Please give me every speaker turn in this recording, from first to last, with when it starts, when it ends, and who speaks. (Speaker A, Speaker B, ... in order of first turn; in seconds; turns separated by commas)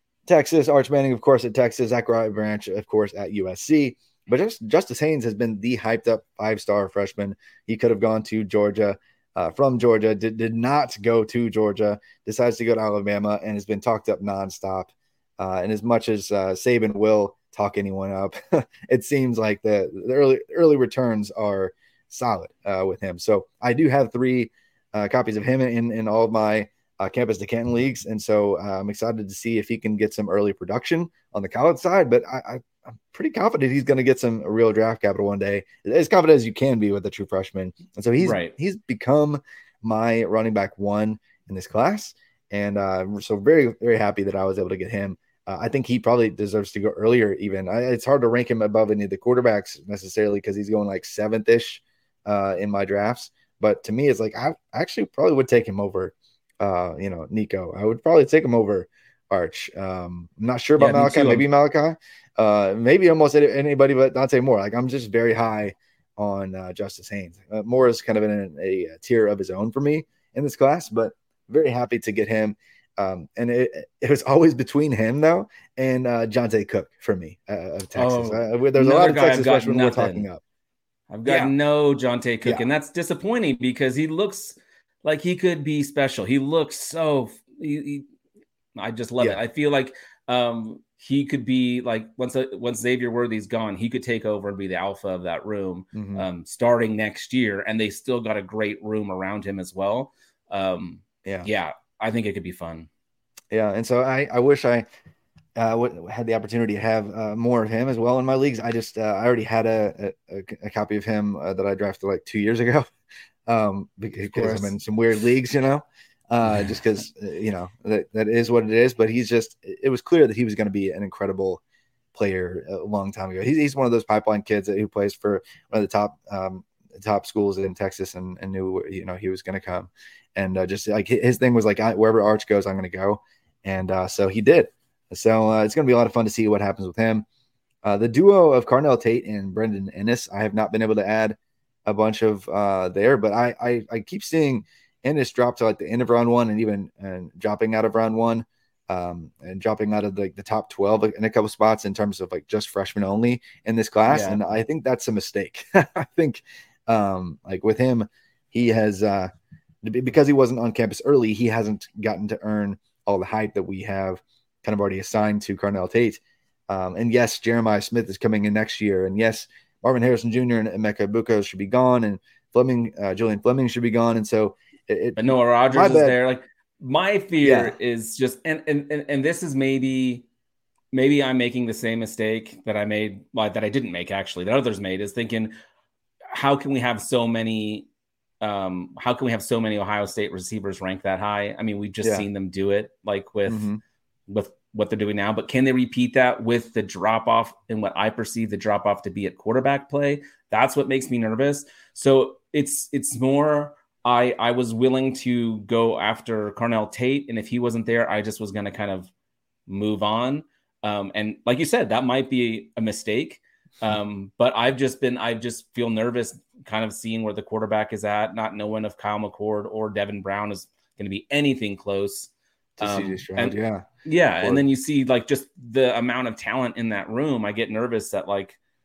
Speaker A: 0.2-80.4, Speaker B: 38.2-38.5, Speaker B: 60.8-61.5, Speaker B: 77.9-80.3, Speaker B: 81.1-88.0, Speaker A: 81.2-81.5, Speaker B: 88.7-102.9, Speaker A: 95.9-96.2, Speaker A: 103.5-104.8, Speaker A: 105.5-112.9, Speaker A: 113.5-121.6, Speaker B: 114.3-114.7, Speaker A: 122.1-137.2, Speaker A: 137.8-159.3, Speaker B: 154.1-154.4, Speaker A: 159.8-176.2, Speaker B: 175.2-180.2, Speaker A: 177.4-177.7, Speaker B: 180.9-185.5, Speaker B: 186.3-187.9, Speaker B: 188.4-193.7, Speaker A: 192.0-192.3, Speaker A: 193.4-193.8, Speaker B: 194.3-209.1, Speaker B: 209.7-222.3, Speaker A: 222.8-223.9, Speaker B: 222.8-228.6